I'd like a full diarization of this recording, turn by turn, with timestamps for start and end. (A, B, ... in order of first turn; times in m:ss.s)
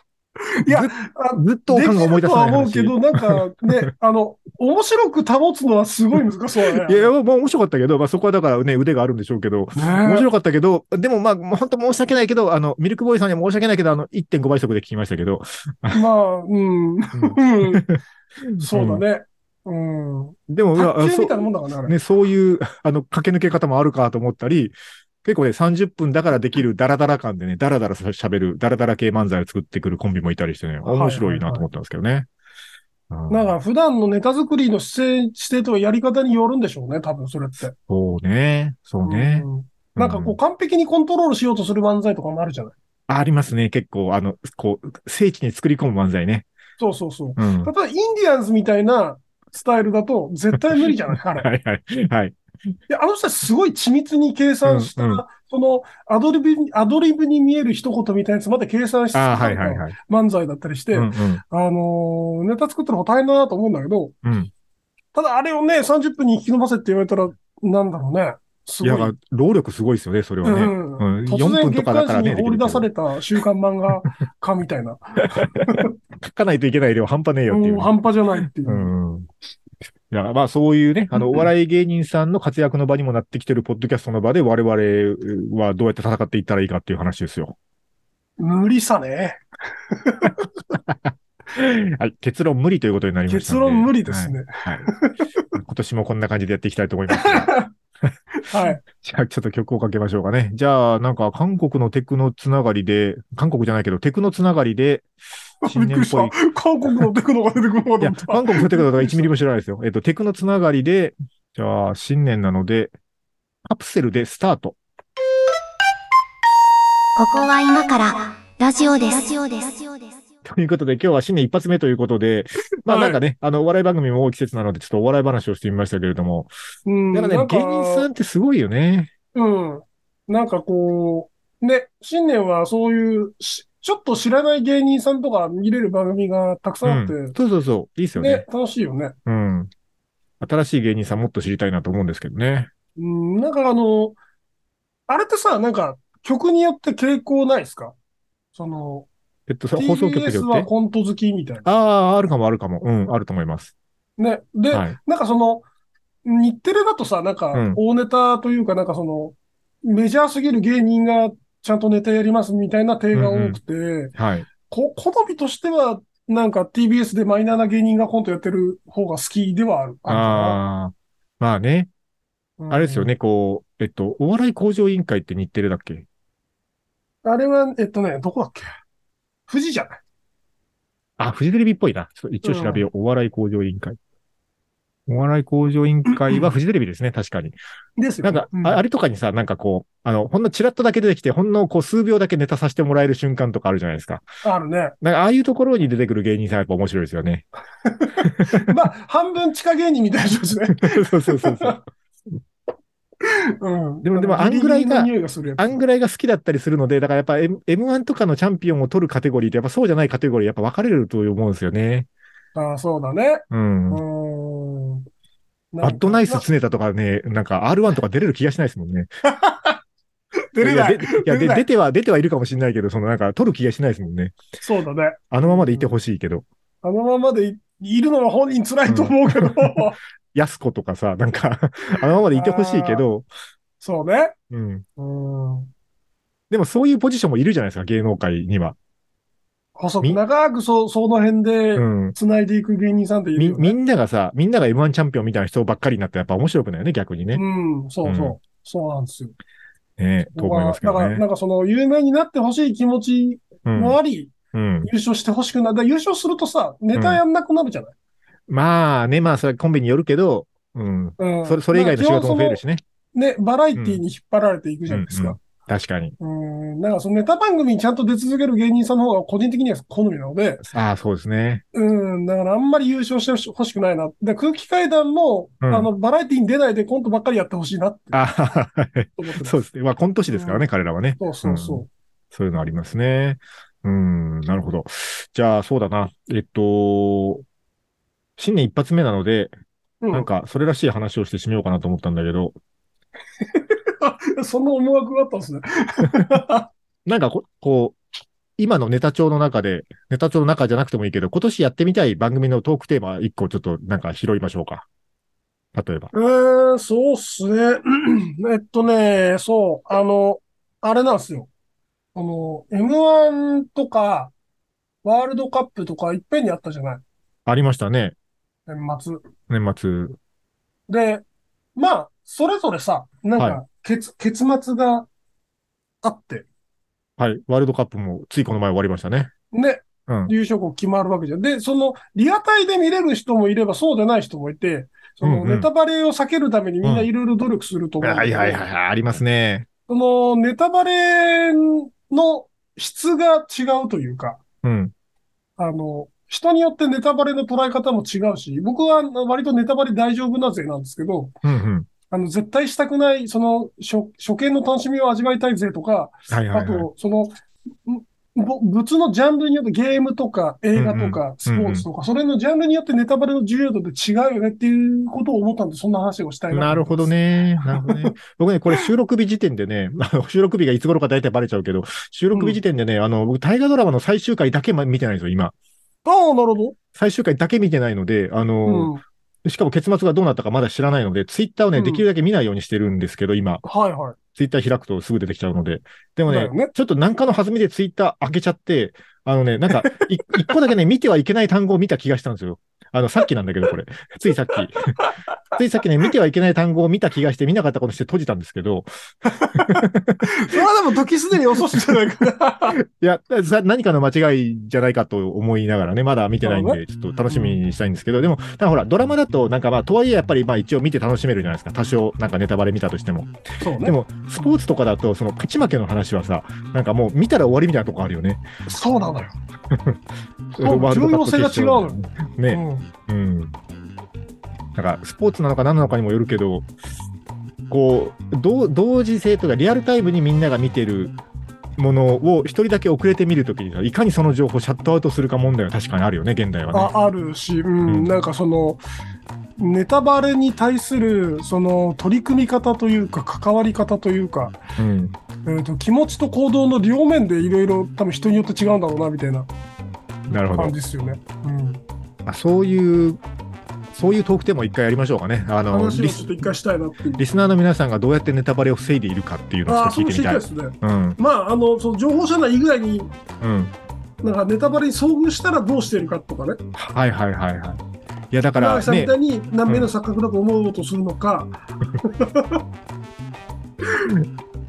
0:00.6-0:07.1 A
0:00.7-0:03.4 B
0:06.7-0:16.0 B
0:09.8-0:10.3 A
0:15.9-0:17.8 A
0:17.1-0:19.0 B
0:18.6-0:22.0 A
0:20.5-0:32.3 B
0:30.8-0:31.7 A
0:33.1-0:33.5 B
0:33.3-0:37.7 A
0:37.7-0:40.4 B
0:39.0-0:42.7 A
0:43.1-0:46.5 B
0:46.8-0:51.5 A
0:47.4-0:47.7 B
0:50.6-0:52.4 B
0:52.9-1:04.1 A
0:54.6-0:55.2 B
0:59.1-0:59.9 B
1:00.9-1:01.4 B
1:04.2-1:04.5 B
1:05.1-1:09.1 A
1:08.8-1:12.9 B
1:10.4-1:15.9 A
1:15.4-1:17.9 B
1:17.5-1:18.9 A
1:18.6-1:19.3 B
1:20.1-1:27.6 B
1:28.4-1:30.4 A
1:30.9-1:34.9 B
1:33.3-1:35.5 A
1:35.5-1:37.5 B
1:37.1-1:37.7 A
1:38.4-1:38.8 A
1:38.8-1:45.1 B
1:45.6-1:49.3 A
1:45.6-1:46.4 B
1:48.0-1:52.9 B
1:53.6-1:54.8 B
1:57.2-2:00.2 C
2:00.4-2:06.5 B
2:02.9-2:03.2 A
2:06.8-2:08.1 A
2:07.1-2:09.1 B
2:09.3-2:17.4 A
2:16.8-2:18.4 B
2:18.2-2:19.1 A
2:19.2-2:19.7 B
2:20.4-2:22.7 B
2:23.0-2:24.2 A
2:25.1-2:27.9 A
2:28.5-2:29.1 A
2:29.5-2:30.7 B
2:29.7-2:31.6 A
2:31.6-2:33.7 B
2:34.2-2:35.6 A
2:34.7-2:35.0 B
2:36.2-2:44.1 A
2:37.5-2:37.8 B
2:43.1-2:43.6 B
2:44.2-2:44.5 B
2:44.7-2:50.6 A
2:50.0-2:51.9 B
2:52.6-2:53.2 A
2:52.7-2:56.0 B
2:57.2-2:58.7 A
2:59.5-3:00.0 A
3:01.2-3:04.0 B
3:02.4-3:02.8 A
3:05.1-3:07.6 B
3:06.1-3:06.4 A
3:08.0-3:08.8 A
3:08.2-3:14.2 B
3:14.4-3:14.9 A
3:15.0-3:17.4 B
3:17.8-3:21.8 A
3:18.3-3:18.8 B
3:20.7-3:21.8 B
3:23.2-3:25.8 A
3:24.0-3:32.1 B
3:32.5-3:35.0 A
3:33.5-3:34.0 B
3:35.7-3:36.4 A
3:35.8-3:39.1 B
3:39.2-3:39.8 A
3:40.5-3:41.6 A
3:40.6-3:44.4 B
3:44.6-3:45.9 A
3:45.3-3:46.4 B
3:46.8-3:50.0 A
3:48.9-3:53.3 B
3:52.0-3:53.0 A
3:53.8-3:54.3 A
3:54.5-3:54.8 B
3:55.0-3:55.7 A
3:56.5-3:58.8 B
3:59.8-4:03.8 A
4:01.8-4:02.2 B
4:03.4-4:07.4 B
4:07.3-4:09.3 A
4:08.0-4:08.4 B
4:10.0-4:11.2 B
4:10.3-4:17.9 A
4:13.6-4:14.0 B
4:14.5-4:14.9 B
4:16.9-4:17.2 B
4:18.5-4:22.8 B
4:21.2-4:22.6 A
4:23.1-4:25.4 A
4:23.7-4:24.0 B
4:24.9-4:26.1 B
4:26.2-4:30.6 A
4:30.7-4:31.6 B
4:31.7-4:38.2 A
4:35.6-4:35.9 B
4:38.1-4:47.4 B
4:39.2-4:39.6 A
4:40.3-4:40.6 A
4:41.2-4:41.9 A
4:48.4-4:49.5 B
4:50.0-4:50.3 A
4:50.1-4:52.6 B
4:53.5-4:56.7 A
4:57.0-4:58.0 B
4:58.6-5:04.8 B
5:05.7-5:06.1 B
5:06.1-5:11.5 A
5:12.1-5:14.3 A
5:15.0-5:17.0 A
5:17.4-5:18.1 B
5:18.7-5:19.2 A
5:19.5-5:20.2 B
5:20.9-5:21.2 A
5:21.8-5:25.1 A
5:23.4-5:23.6 B
5:26.0-5:26.4 A
5:27.2-5:29.3 B
5:29.5-5:38.6 A
5:30.1-5:30.3 B
5:35.2-5:35.7 B
5:36.8-5:37.1 B
5:38.0-5:39.7 B
5:39.9-5:44.4 A
5:44.6-5:44.9 B
5:45.6-5:51.3 A
5:51.4-5:51.9 B
5:52.1-5:57.3 A
5:56.3-5:56.9 B
5:57.8-6:07.1 A
6:00.8-6:01.8 B
6:06.5-6:15.5 B
6:07.7-6:08.1 A
6:12.3-6:12.6 A
6:16.0-6:16.7 A
6:16.9-6:18.9 B
6:18.6-6:19.0 A
6:19.4-6:23.6 B
6:21.7-6:22.0 A
6:23.6-6:24.2 A
6:24.3-6:34.9 B
6:26.3-6:26.7 A
6:35.5-6:38.9 B
6:39.3-6:42.8 A
6:39.5-6:40.6 B
6:41.6-6:41.9 B
6:42.9-6:53.3 B
6:46.4-6:47.6 A
6:53.6-6:54.6 A
6:53.8-6:58.4 B
6:58.7-6:59.4 A
6:59.7-7:00.0 B
7:00.5-7:02.0 A
7:00.6-7:03.5 B
7:02.5-7:02.9 A
7:04.8-7:06.7 B
7:07.7-7:11.2 B
7:11.8-7:16.9 B
7:16.7-7:18.8 A
7:17.8-7:18.1 B
7:19.6-7:24.6 A
7:24.8-7:25.1 B
7:25.4-7:29.5 A
7:30.3-7:30.7 B
7:30.5-7:31.8 A
7:32.2-7:33.2 B
7:33.9-7:36.4 B
7:35.7-7:37.2 A
7:37.2-7:41.2 B
7:39.6-7:43.1 A
7:43.4-7:43.7 B
7:44.2-7:46.6 A
7:46.8-7:47.8 B
7:48.3-7:49.2 B
7:48.6-7:52.6 A